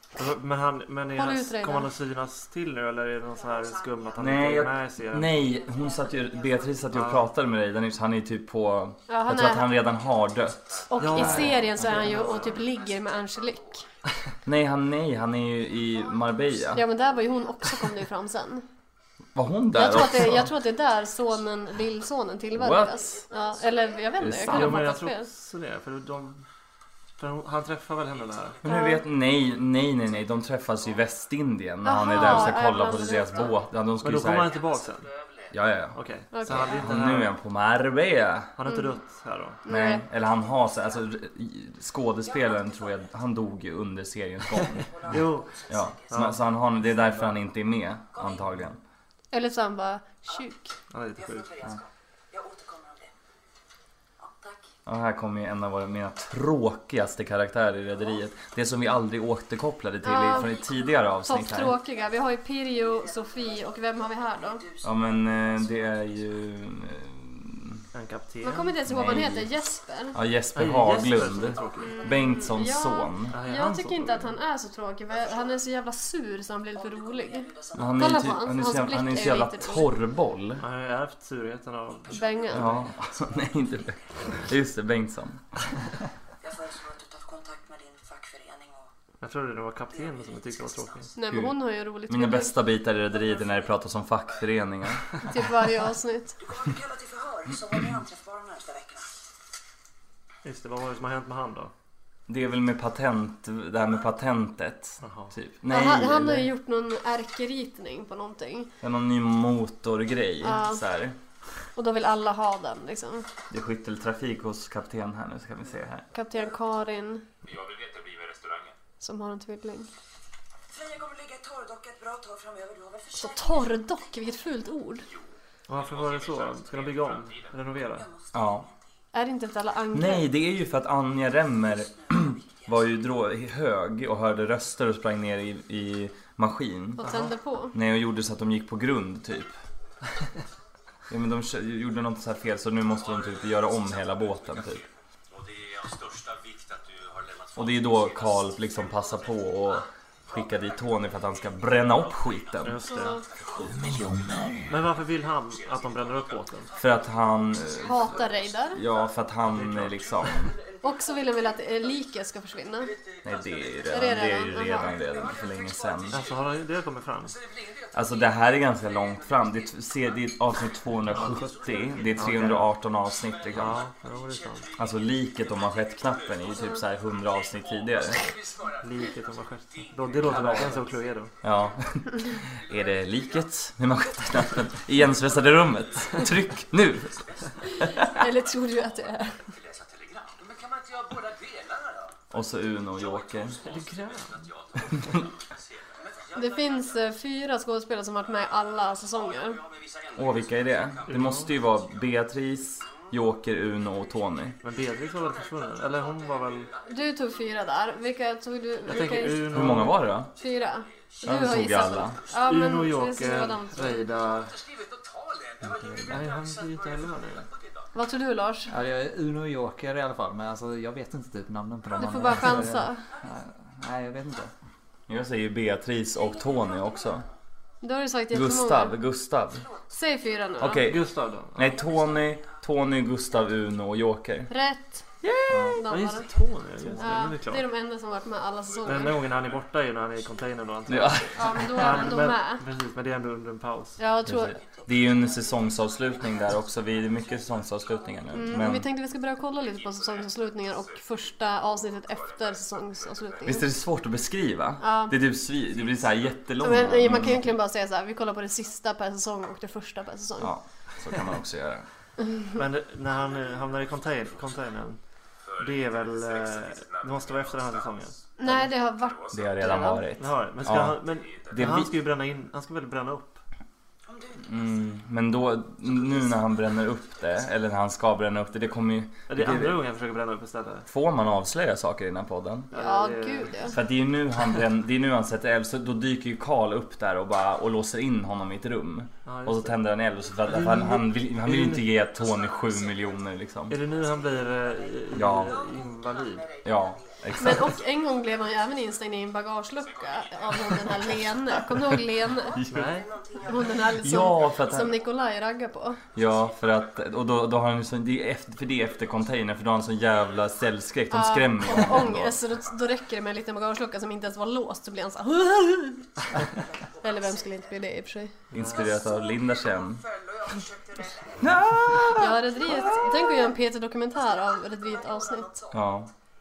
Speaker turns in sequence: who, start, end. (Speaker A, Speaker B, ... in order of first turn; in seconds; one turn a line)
Speaker A: 0.1-5.3
Speaker B: 1.1-1.9
Speaker C: 3.3-4.6
Speaker D: 4.2-11.6
Speaker C: 5.3-7.0
Speaker A: 6.9-7.2
Speaker B: 9.1-9.7
Speaker B: 10.9-13.8
Speaker A: 11.0-12.4
Speaker C: 11.3-13.8
Speaker E: 11.7-12.1
Speaker D: 14.4-16.9
Speaker C: 15.7-17.7
Speaker B: 16.7-18.6
Speaker D: 19.3-20.5
Speaker B: 19.7-25.3
Speaker D: 22.6-23.1
Speaker C: 22.8-24.3
Speaker D: 24.2-24.8
Speaker A: 24.5-26.4
Speaker A: 27.2-28.6
Speaker D: 28.6-34.5
Speaker B: 28.6-29.0
Speaker B: 31.8-33.6
Speaker A: 32.1-32.6
Speaker C: 32.8-33.6
Speaker A: 34.0-35.0
Speaker D: 35.5-38.5
Speaker A: 35.9-37.3
Speaker B: 36.3-36.8
Speaker A: 38.5-39.6
Speaker B: 38.6-39.0
Speaker B: 39.6-40.0
Speaker D: 39.6-48.8
Speaker C: 40.4-41.0
Speaker C: 42.2-43.1
Speaker A: 44.6-45.5
Speaker C: 44.8-46.4
Speaker A: 46.1-47.3
Speaker C: 48.1-48.6
Speaker B: 49.3-50.7
Speaker A: 50.9-51.5
Speaker C: 51.1-53.1
Speaker C: 54.2-54.7
Speaker D: 54.9-61.8
Speaker B: 60.0-60.6
Speaker C: 60.2-60.9
Speaker B: 61.2-64.6
Speaker C: 62.7-66.5
Speaker D: 64.8-67.8
Speaker A: 67.9-68.7
Speaker B: 68.4-70.2
Speaker D: 68.8-69.5
Speaker D: 70.1-73.3
Speaker A: 70.5-72.0
Speaker C: 70.9-72.7
Speaker B: 71.8-79.9
Speaker A: 73.3-74.3
Speaker C: 75.1-75.6
Speaker C: 76.7-78.8
Speaker D: 77.7-80.6
Speaker A: 80.6-82.8
Speaker C: 81.9-84.4
Speaker B: 82.1-82.7
Speaker D: 82.5-85.5
Speaker C: 86.4-88.9
Speaker A: 89.2-91.1
Speaker C: 89.9-91.2
Speaker B: 91.2-92.6
Speaker D: 91.3-95.1
Speaker C: 93.1-93.8
Speaker B: 95.2-96.4
Speaker C: 96.4-99.1
Speaker A: 100.4-101.7
Speaker D: 102.3-106.5
Speaker A: 105.0-105.3
Speaker B: 105.7-108.7
Speaker D: 108.8-111.2
Speaker B: 110.4-110.8
Speaker B: 111.8-113.3
Speaker D: 113.5-116.0
Speaker B: 116.1-117.2
Speaker F: 117.4-118.8
Speaker B: 119.0-119.9
Speaker C: 120.7-124.5
Speaker B: 123.2-125.0
Speaker A: 125.7-128.1
Speaker F: 125.7-127.5
Speaker C: 127.9-128.8
Speaker D: 128.3-128.7
Speaker B: 129.1-130.3
Speaker D: 129.9-137.0
Speaker C: 131.7-132.9
Speaker A: 137.0-137.3
Speaker B: 137.0-137.7
Speaker D: 137.7-139.5
Speaker D: 141.1-144.8
Speaker F: 142.9-153.8
Speaker D: 147.6-152.8
Speaker A: 152.6-153.2
Speaker B: 152.8-153.2
Speaker D: 153.5-154.7
Speaker A: 154.7-156.7
Speaker F: 154.8-159.1
Speaker D: 156.7-160.5
Speaker B: 157.8-158.8
Speaker A: 159.5-160.1
Speaker F: 159.9-160.8
Speaker B: 160.8-162.9
Speaker F: 162.9-166.7
Speaker D: 163.2-166.2
Speaker B: 163.9-164.9
Speaker A: 166.1-167.3
Speaker F: 167.2-182.0
Speaker D: 167.9-173.8
Speaker A: 171.1-171.5
Speaker A: 172.1-172.7
Speaker A: 173.5-174.7
Speaker D: 174.8-178.3
Speaker B: 176.5-176.8
Speaker A: 178.8-181.3
Speaker E: 180.3-180.7
Speaker D: 181.4-188.1
Speaker F: 182.6-183.5
Speaker F: 184.4-186.3
Speaker F: 187.2-188.2
Speaker B: 187.7-189.5
Speaker F: 189.5-192.1
Speaker D: 192.3-193.6
Speaker F: 192.9-196.7
Speaker A: 193.6-194.4
Speaker B: 196.3-199.6
Speaker F: 199.5-201.4
Speaker D: 200.2-204.6
Speaker A: 201.1-201.5
Speaker A: 204.6-206.7
Speaker F: 204.6-207.0
Speaker B: 206.9-209.8
Speaker A: 208.8-210.1
Speaker D: 209.5-210.3
Speaker B: 210.3-214.1
Speaker F: 211.2-212.3
Speaker D: 211.2-212.2
Speaker A: 212.4-214.6
Speaker F: 214.4-217.9
Speaker E: 215.7-216.2
Speaker A: 216.1-217.5
Speaker B: 217.9-218.7
Speaker E: 218.7-224.5
Speaker B: 221.9-223.0
Speaker D: 225.1-227.2
Speaker C: 226.1-227.3
Speaker B: 227.8-228.9
Speaker D: 228.3-229.7
Speaker C: 229.5-230.7
Speaker B: 229.9-230.8
Speaker D: 230.6-231.0
Speaker A: 230.8-231.9
Speaker D: 231.6-234.5
Speaker C: 231.6-232.6
Speaker B: 234.5-235.0
Speaker D: 235.2-235.8
Speaker E: 235.5-235.8
Speaker B: 235.8-236.3
Speaker A: 235.9-237.7
Speaker E: 236.8-237.2
Speaker B: 237.0-239.2
Speaker A: 238.8-244.0
Speaker F: 238.8-239.6
Speaker D: 240.9-241.8
Speaker B: 241.3-242.6
Speaker B: 244.0-244.6
Speaker D: 244.2-248.8
Speaker C: 244.7-248.7
Speaker B: 248.3-253.7
Speaker F: 249.6-253.4
Speaker D: 253.4-257.5
Speaker B: 254.8-255.2
Speaker F: 255.7-256.8
Speaker B: 256.6-260.5
Speaker D: 260.4-261.9
Speaker A: 262.6-265.0
Speaker F: 263.2-264.6
Speaker F: 265.4-269.9
Speaker A: 265.6-268.7
Speaker B: 268.4-270.0
Speaker D: 269.3-271.9
Speaker A: 269.7-273.4
Speaker F: 270.8-271.8
Speaker C: 274.1-275.0
Speaker D: 274.4-279.8
Speaker C: 275.8-276.8
Speaker A: 279.3-280.9
Speaker D: 280.9-282.7
Speaker A: 282.7-283.8
Speaker B: 282.7-283.7
Speaker D: 283.7-293.8
Speaker A: 289.2-289.8
Speaker A: 290.4-292.0
Speaker C: 292.2-293.2
Speaker A: 293.7-296.5
Speaker C: 293.8-298.2
Speaker D: 295.1-295.6
Speaker D: 296.6-297.7
Speaker B: 297.4-302.6
Speaker F: 299.8-301.1
Speaker C: 302.4-304.6
Speaker D: 302.5-302.9
Speaker A: 302.7-303.1
Speaker B: 303.4-306.0
Speaker D: 304.0-304.9
Speaker D: 306.1-312.4
Speaker F: 306.1-306.9
Speaker B: 311.1-316.1
Speaker C: 316.6-317.9
Speaker B: 317.0-318.4
Speaker A: 318.5-319.0
Speaker D: 318.5-320.0
Speaker C: 318.6-323.6
Speaker D: 321.4-323.0
Speaker B: 322.1-325.5
Speaker C: 324.1-325.8
Speaker D: 325.7-326.1